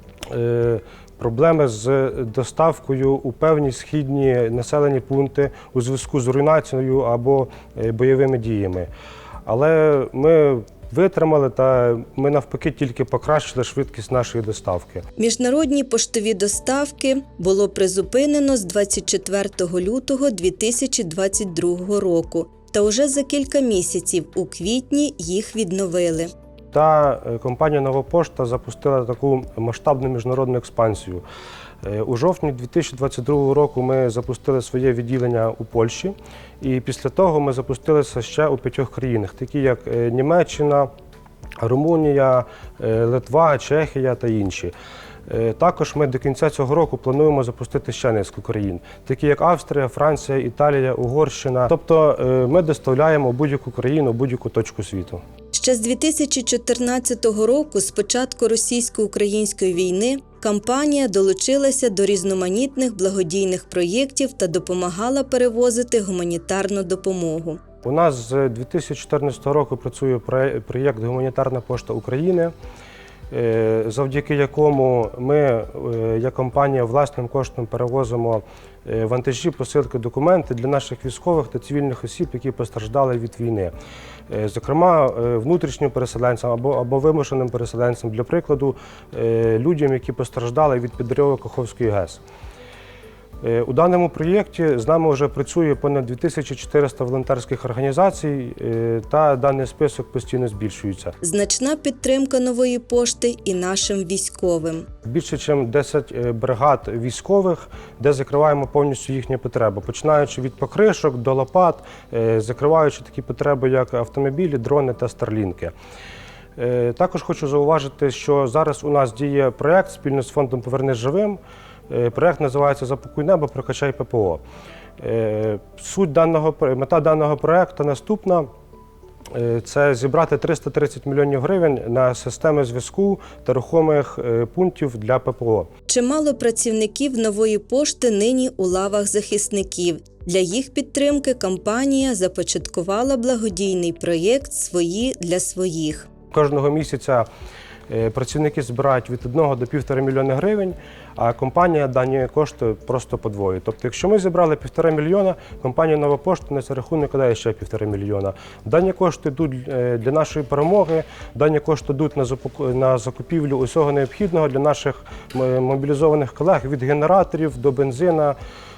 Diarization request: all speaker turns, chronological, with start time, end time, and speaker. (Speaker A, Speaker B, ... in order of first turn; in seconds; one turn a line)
Speaker A: 0.3-8.9
Speaker A: 9.5-15.0
Speaker B: 15.2-26.3
Speaker A: 26.7-31.2
Speaker A: 31.8-40.9
Speaker A: 41.6-44.7
Speaker A: 45.3-55.2
Speaker B: 55.5-67.6
Speaker A: 67.8-72.5
Speaker A: 73.3-83.7
Speaker A: 84.3-92.2
Speaker A: 93.4-101.2
Speaker B: 101.2-104.9
Speaker A: 105.0-115.7
Speaker A: 116.6-121.4
Speaker A: 121.9-124.4
Speaker A: 125.0-128.5
Speaker A: 129.3-135.7
Speaker B: 135.9-146.1
Speaker A: 146.3-147.3
Speaker A: 147.9-168.4